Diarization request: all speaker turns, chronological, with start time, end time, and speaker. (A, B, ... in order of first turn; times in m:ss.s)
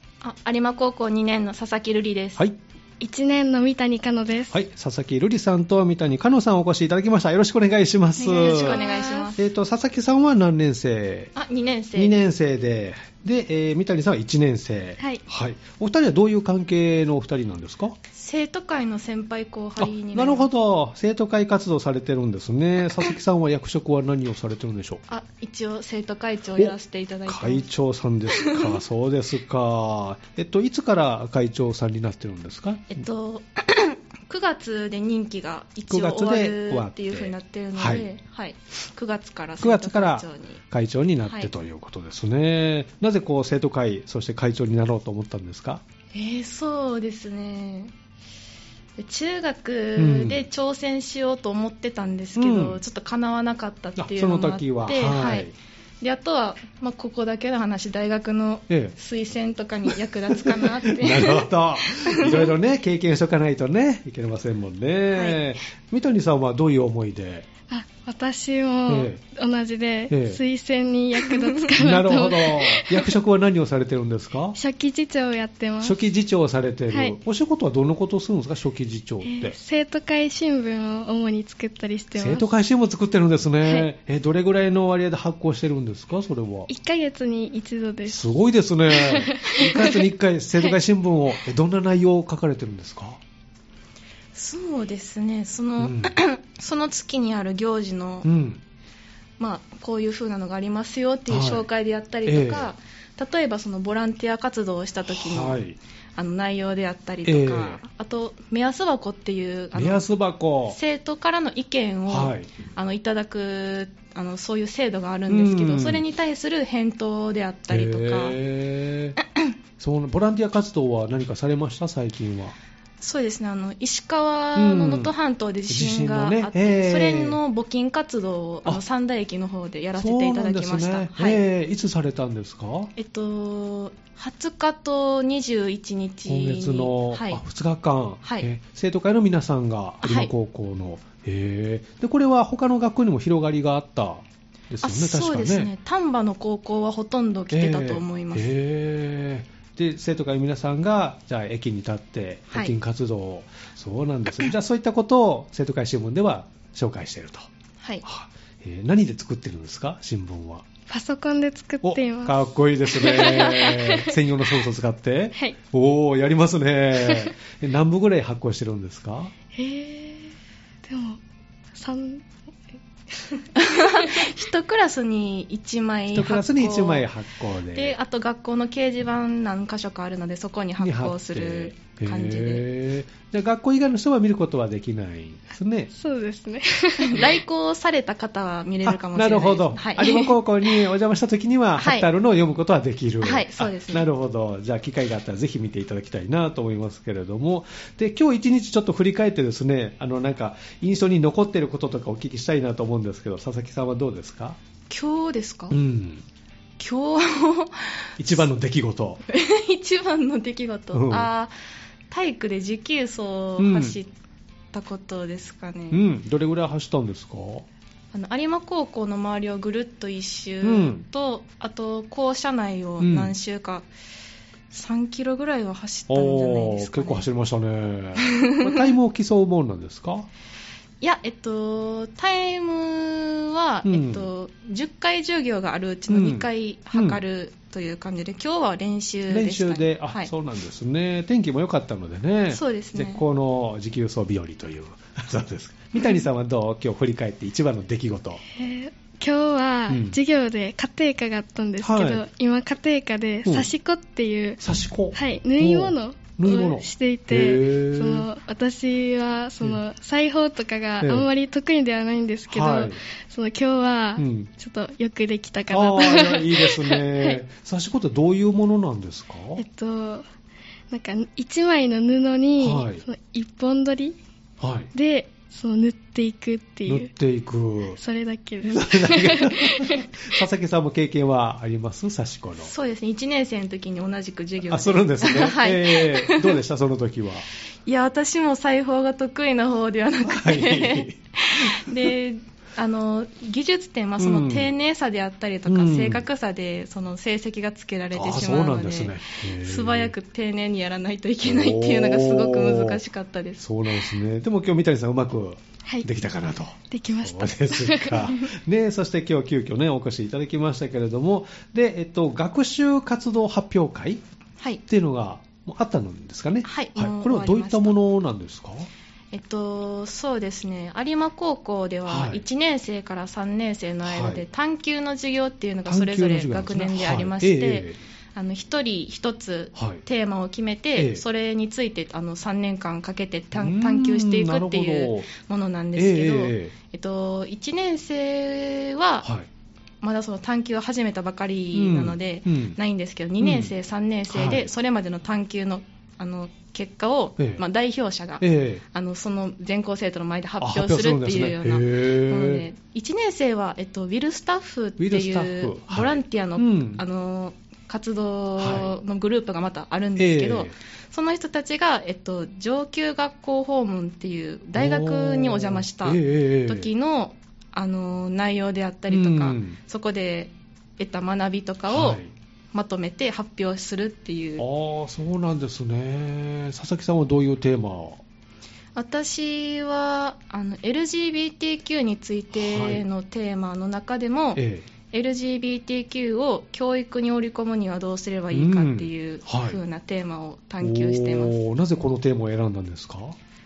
0:00.2-0:02.4 A
0:03.0-0:04.6 B
0:04.5-0:08.8 C
0:08.2-0:09.4 A
0:08.4-0:09.4 B
0:09.4-0:11.3 C
0:11.4-0:12.2 A
0:12.0-0:18.0 C
0:18.1-0:20.5 A
0:19.8-0:25.0 C
0:25.1-0:27.7 A
0:27.3-0:33.1 C
0:28.3-0:28.8 A
0:32.9-0:40.6 A
0:35.9-0:38.1 C
0:39.6-0:45.8 C
0:46.1-0:47.9 A
0:49.0-0:55.5 A
0:50.0-0:50.4 C
0:52.4-0:52.8 C
0:54.0-0:55.5 C
0:56.0-1:02.5 A
1:00.3-1:07.5 C
1:05.1-1:05.4 A
1:07.7-1:13.1 B
1:08.9-1:09.2 C
1:10.1-1:10.4 C
1:11.7-1:14.6 C
1:14.6-1:16.0 B
1:15.8-1:19.6 C
1:16.9-1:17.2 B
1:19.2-1:22.5 B
1:22.2-1:26.7 C
1:23.6-1:23.9 B
1:26.7-1:28.3 B
1:28.1-1:33.2 C
1:28.9-1:30.0 B
1:34.4-1:38.3 A
1:35.8-1:36.1 C
1:38.2-1:38.6 C
1:39.4-1:45.6 A
1:41.3-1:41.6 C
1:42.2-1:42.7 C
1:45.1-1:45.8 C
1:46.2-1:50.0 A
1:47.2-1:47.8 C
1:49.7-1:50.8 C
1:50.7-1:58.4 A
1:52.1-1:52.5 C
1:55.3-1:56.0 C
1:57.7-1:59.2 C
1:59.8-2:02.6 C
2:03.0-2:11.4 A
2:04.6-2:05.1 C
2:05.7-2:07.4 C
2:10.0-2:12.9 C
2:13.0-2:17.4 A
2:16.3-2:25.7 C
2:20.0-2:20.3 A
2:24.8-2:28.5 A
2:27.5-2:37.5 C
2:38.0-2:40.7 C
2:40.9-2:44.6 B
2:41.8-2:49.3 C
2:47.0-2:47.3 B
2:49.5-2:50.3 B
2:50.8-2:51.2 B
2:51.7-2:52.3 B
2:53.1-2:54.5 B
2:53.6-2:57.1 A
2:56.1-2:58.0 C
2:57.7-3:02.6 A
3:00.8-3:05.9 C
3:05.9-3:07.4 B
3:07.0-3:10.8 A
3:08.8-3:24.6 C
3:11.8-3:12.1 A
3:13.2-3:14.1 A
3:24.9-3:25.8 A
3:25.7-3:26.2 C
3:26.8-3:28.4 A
3:28.2-3:29.2 C
3:29.3-3:31.5 A
3:30.9-3:31.3 C
3:32.1-3:34.1 A
3:33.6-3:34.0 C
3:34.7-3:36.0 A
3:35.9-3:37.7 C
3:38.1-3:43.9 A
3:40.6-3:41.0 C
3:43.0-3:43.3 C
3:44.7-3:47.3 A
3:46.1-3:50.3 C
3:48.2-3:48.9 A
3:51.0-4:00.3 A
3:53.8-3:54.3 C
3:56.1-3:57.2 C
3:59.3-4:08.4 C
4:02.5-4:03.2 A
4:08.5-4:14.6 B
4:09.9-4:10.2 C
4:11.8-4:12.2 C
4:13.4-4:13.7 C
4:14.6-4:18.3 C
4:15.1-4:27.4 B
4:21.0-4:21.3 C
4:22.5-4:23.0 C
4:24.2-4:24.5 C
4:25.7-4:29.6 C
4:29.6-4:30.2 B
4:30.9-4:34.2 B
4:32.6-4:33.0 C
4:34.6-4:34.9 C
4:34.9-4:37.1 B
4:36.9-4:38.0 C
4:38.0-4:40.2 B
4:38.6-4:42.7 C
4:42.6-4:46.6 A
4:44.7-4:47.5 C
4:47.9-5:03.6 A
4:50.2-4:52.1 C
4:54.2-4:54.7 C
4:55.7-4:56.2 C
4:58.1-5:00.1 C
5:01.4-5:03.0 C
5:03.6-5:14.2 C
5:06.9-5:08.4 B
5:14.9-5:18.9 C
5:16.6-5:18.0 A
5:19.3-5:39.3 A
5:22.1-5:22.4 C
5:24.0-5:24.4 C
5:25.9-5:28.0 C
5:29.8-5:30.0 C
5:31.0-5:31.2 C
5:33.5-5:35.3 C
5:36.0-5:36.7 C
5:40.0-6:12.2 A
5:41.7-5:42.8 C
5:43.4-5:43.7 C
5:44.3-5:44.7 C
5:48.4-5:48.8 C
5:50.6-5:52.7 C
5:55.0-5:57.0 C
5:58.6-5:59.0 C
6:00.2-6:00.8 C
6:04.8-6:06.9 C
6:09.1-6:09.8 C
6:11.9-6:12.3 C
6:12.7-6:14.6 A
6:14.6-6:18.2 C
6:19.0-6:31.6 A
6:22.5-6:23.0 C
6:24.6-6:24.9 C
6:28.5-6:29.8 C
6:30.8-6:33.4 C